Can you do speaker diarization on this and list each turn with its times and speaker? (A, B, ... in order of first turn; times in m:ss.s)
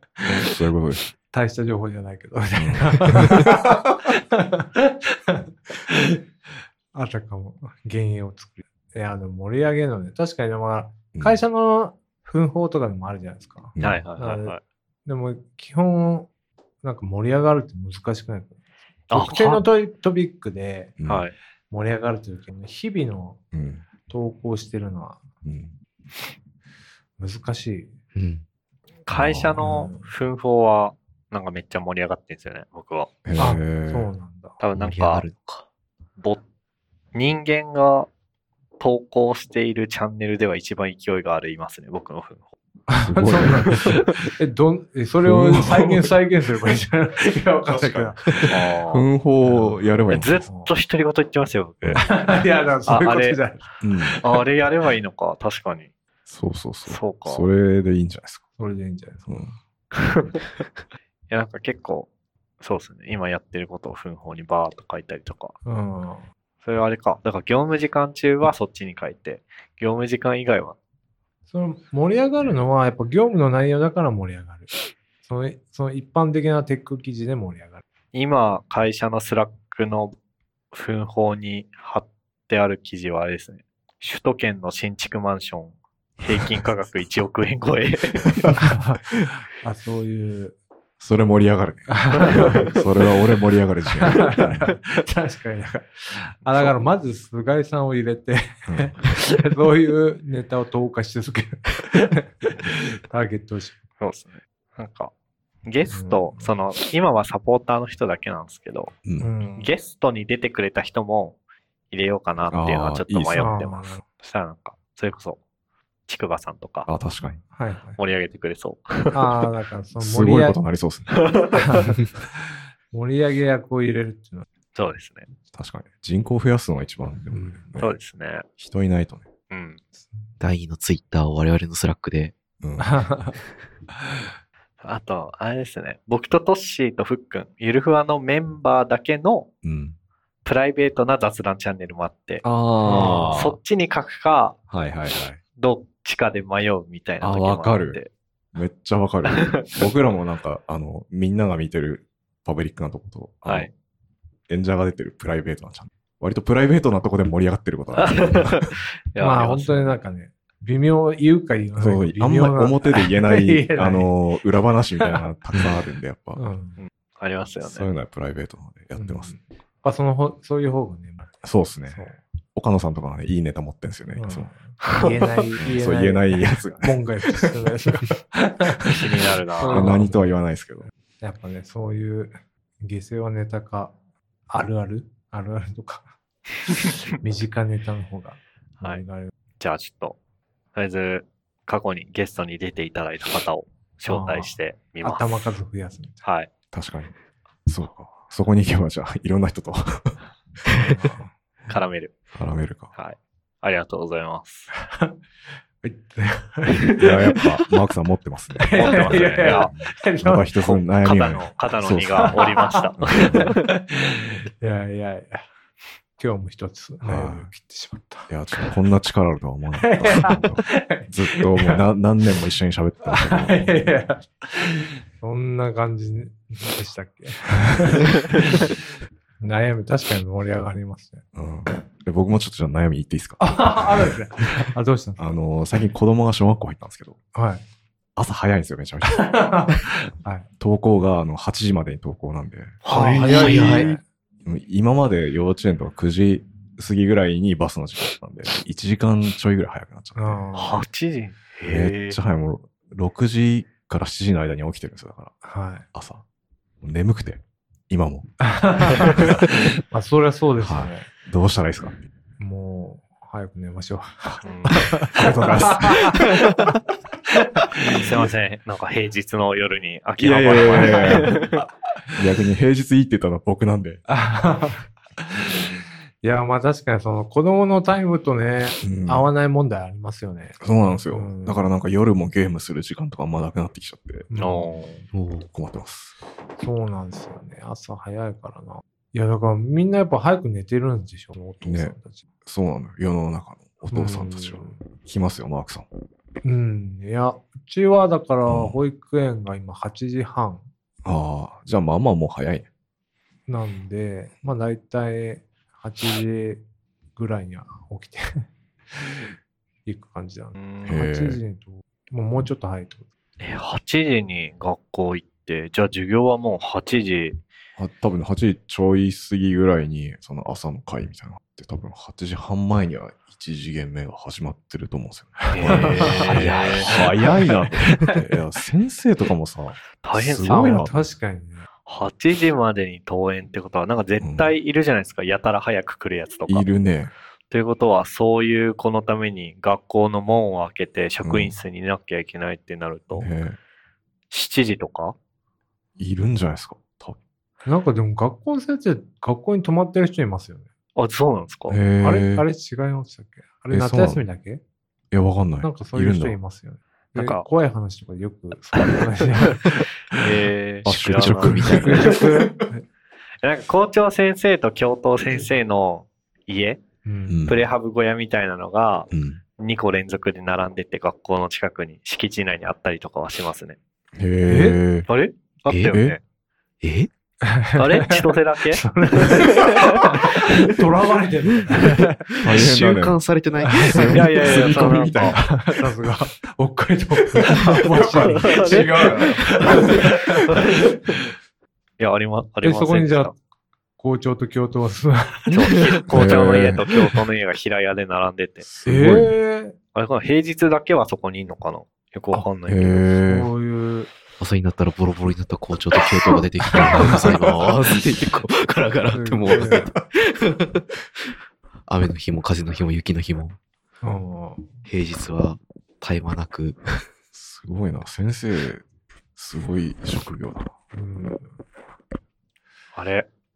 0:00.3-0:01.0 A
0:01.3-0:06.2 B
0:02.6-0:03.8 A
0:06.9-0:14.6 B
0:13.8-0:14.0 A
0:13.8-0:14.6 C
0:15.1-0:16.3 B
0:16.8-0:18.6 B
0:19.1-0:19.6 C
0:19.1-0:20.9 B
0:21.0-0:21.2 A
0:21.1-0:21.3 C
0:21.7-0:23.4 B
0:23.5-0:23.8 A
0:24.1-0:25.2 B
0:25.4-0:25.7 A
0:27.2-0:27.9 B
0:28.2-0:28.4 D
0:29.1-0:33.1 C
0:29.1-0:29.8 A
0:29.6-0:30.1 B
0:33.2-0:34.1 A
0:33.4-0:34.6 B
0:34.6-0:35.3 C
0:34.8-0:35.7 D
0:37.1-0:38.1 C
0:38.8-0:42.5 C
0:42.9-0:48.6 B
0:43.0-0:44.0 A
0:45.2-0:46.1 A
0:47.7-0:50.5 A
0:48.5-0:49.1 C
0:49.4-0:49.8 B
0:50.1-0:52.2 C
0:50.4-0:50.7 B
0:52.0-0:53.7 B
0:52.9-0:53.4 C
0:53.8-0:54.2 A
0:54.2-0:55.9 C
0:56.3-0:58.4 A
0:56.9-0:57.5 C
0:58.6-0:59.5 B
0:59.3-0:59.5 A
1:00.0-1:00.4 C
1:01.3-1:02.1 C
1:02.6-1:05.6 C
1:05.6-1:06.2 B
1:06.6-1:10.8 C
1:11.5-1:14.7 B
1:15.2-1:17.8 B
1:18.1-1:20.2 C
1:20.7-1:28.6 C
1:28.6-1:29.0 B
1:29.6-1:30.6 B
1:31.0-1:34.7 A
1:31.9-1:32.7 B
1:34.0-1:43.8 B
1:38.7-1:39.0 A
1:44.0-1:45.1 C
1:45.6-1:49.0 C
1:45.9-1:46.5 B
1:49.0-1:49.3 A
1:49.2-1:49.7 B
1:49.6-1:51.4 C
1:51.9-1:55.4 C
1:52.5-1:53.6 A
1:53.4-1:54.0 B
1:56.1-1:56.9 C
1:56.9-1:57.4 A
1:57.5-1:58.0 B
1:58.0-1:59.4 C
1:59.1-2:00.6 B
2:00.0-2:01.2 A
2:01.1-2:01.8 C
2:01.6-2:02.0 B
2:02.9-2:04.5 B
2:04.8-2:05.3 C
2:05.5-2:08.0 A
2:07.3-2:07.6 B
2:07.8-2:08.4 C
2:08.6-2:09.3 A
2:09.5-2:09.8 C
2:10.4-2:12.4 D
2:12.6-2:13.1 A
2:12.8-2:13.4 B
2:14.8-2:19.5 C
2:19.6-2:20.0 A
2:20.4-2:24.6 C
2:22.4-2:23.6 A
2:22.8-2:23.4 B
2:24.7-2:25.4 A
2:25.6-2:28.1 C
2:27.2-2:28.0 A
2:28.5-2:33.7 A
2:29.3-2:29.7 C
2:34.5-2:38.8 A
2:38.0-2:40.0 C
2:39.2-2:44.1 B
2:41.8-2:46.4 A
2:46.4-2:46.8 B
2:46.8-2:47.9 C
2:47.6-2:49.3 A
2:49.0-2:51.3 B
2:51.4-2:52.0 A
2:51.9-2:52.2 B
2:52.6-2:54.5 A
2:54.2-3:00.2 B
2:55.6-2:57.6 A
2:58.8-3:00.0 C
2:59.7-3:00.9 A
3:01.2-3:03.9 B
3:04.5-3:06.1 B
3:07.1-3:09.3 B
3:09.6-3:10.2 C
3:10.8-3:15.3 C
3:14.1-3:16.2 B
3:16.2-3:16.5 C
3:16.7-3:17.1 A
3:17.7-3:20.2 A
3:20.7-3:21.3 B
3:21.7-3:22.1 C
3:22.3-3:22.9 A
3:23.0-3:24.7 C
3:24.8-3:25.2 B
3:25.8-3:27.4 B
3:27.0-3:32.4 A
3:28.6-3:30.6 B
3:28.7-3:29.7 C
3:30.7-3:33.6 C
3:32.2-3:35.4 B
3:33.0-3:33.5 A
3:36.2-3:38.7 B
3:37.0-3:37.5 A
3:38.3-3:43.8 A
3:39.8-3:41.8 B
3:43.0-3:48.8 B
3:49.4-3:51.2 B
3:51.4-3:54.2 A
3:53.4-3:55.4 B
3:55.2-3:57.2 A
3:57.3-3:57.6 B
3:58.2-3:59.8 A
3:59.1-4:00.5 B
4:00.6-4:02.8 A
4:02.8-4:03.9 C
4:02.9-4:04.0 B
4:02.9-4:04.0 D
4:04.4-4:10.4 A
4:10.2-4:10.8 B
4:10.6-4:12.2 C
4:11.6-4:15.4 A
4:15.4-4:15.8 B
4:15.9-4:16.2 A
4:16.8-4:18.3 A
4:18.4-4:21.1 B
4:19.0-4:19.4 A
4:20.6-4:22.0 A
4:22.4-4:26.8 B
4:24.4-4:24.8 C
4:24.7-4:26.4 A
4:27.4-4:28.0 B
4:27.9-4:31.6 C
4:30.2-4:31.6 A
4:32.2-4:34.0 A
4:34.1-4:35.6 B
4:36.2-4:41.6 B
4:38.8-4:39.3 A
4:40.6-4:44.3 A
4:44.3-4:44.9 B
4:44.4-4:45.0 C
4:45.1-4:45.5 D
4:45.5-4:46.2 A
4:46.6-4:52.2 B
4:51.6-4:55.9 A
4:53.9-4:54.8 B
4:56.4-5:00.6 B
4:58.5-4:58.8 A
5:01.0-5:02.7 A
5:03.5-5:06.6 B
5:07.2-5:09.2 B
5:09.9-5:13.0 B
5:10.6-5:11.0 C
5:10.8-5:11.4 A
5:13.4-5:17.4 C
5:17.8-5:31.1 A
5:25.5-5:27.0 C
5:25.6-5:26.5 B
5:26.2-5:26.9 D
5:27.3-5:28.2 B
5:30.0-5:30.9 C
5:30.5-5:31.7 B
5:31.9-5:36.7 C
5:34.2-5:34.5 A
5:36.5-5:37.1 A
5:37.5-5:43.3 C
5:41.2-5:41.5 A
5:43.1-5:43.6 A
5:44.3-5:45.2 C
5:46.0-5:47.2 A
5:47.7-5:50.7 B
5:51.0-5:51.8 C
5:51.7-5:52.5 A
5:52.0-5:54.6 B
5:53.7-5:54.2 A
5:55.1-5:56.4 A
5:55.6-5:59.8 B
5:57.2-5:57.4 C
5:59.7-6:02.2 C
6:00.8-6:02.2 A
6:00.9-6:02.2 D
6:01.7-6:02.8 B
6:03.4-6:06.8 C
6:07.0-6:07.4 B
6:07.3-6:07.6 A
6:07.5-6:13.8 C
6:09.1-6:09.4 A
6:14.2-6:15.1 A
6:14.5-6:14.8 B
6:15.1-6:16.2 C
6:15.7-6:15.9 D
6:15.9-6:16.2 A
6:16.8-6:17.1 D
6:17.4-6:22.3 B
6:17.8-6:19.8 C
6:22.4-6:23.2 A
6:22.4-6:24.8 D
6:23.6-6:24.3 B
6:23.8-6:25.6 A
6:24.1-6:25.4 C
6:25.1-6:30.6 B
6:27.4-6:30.1 A
6:28.2-6:29.9 C
6:32.0-6:33.3 C
6:32.6-6:33.4 B
6:34.0-6:35.7 B
6:35.5-6:38.6 C
6:36.1-6:36.8 A
6:38.6-6:39.4 A
6:38.8-6:39.8 B
6:40.0-6:43.1 C
6:42.7-6:43.5 A
6:43.2-6:44.1 B
6:44.4-6:51.0 D
6:46.8-6:47.3 B
6:46.9-6:47.7 A
6:49.1-6:49.9 B
6:51.9-6:53.6 D
6:54.0-6:54.7 B
6:54.9-6:56.8 D
6:57.3-6:58.8 A
6:59.4-7:00.7 A
7:00.9-7:01.5 B
7:03.0-7:03.3 C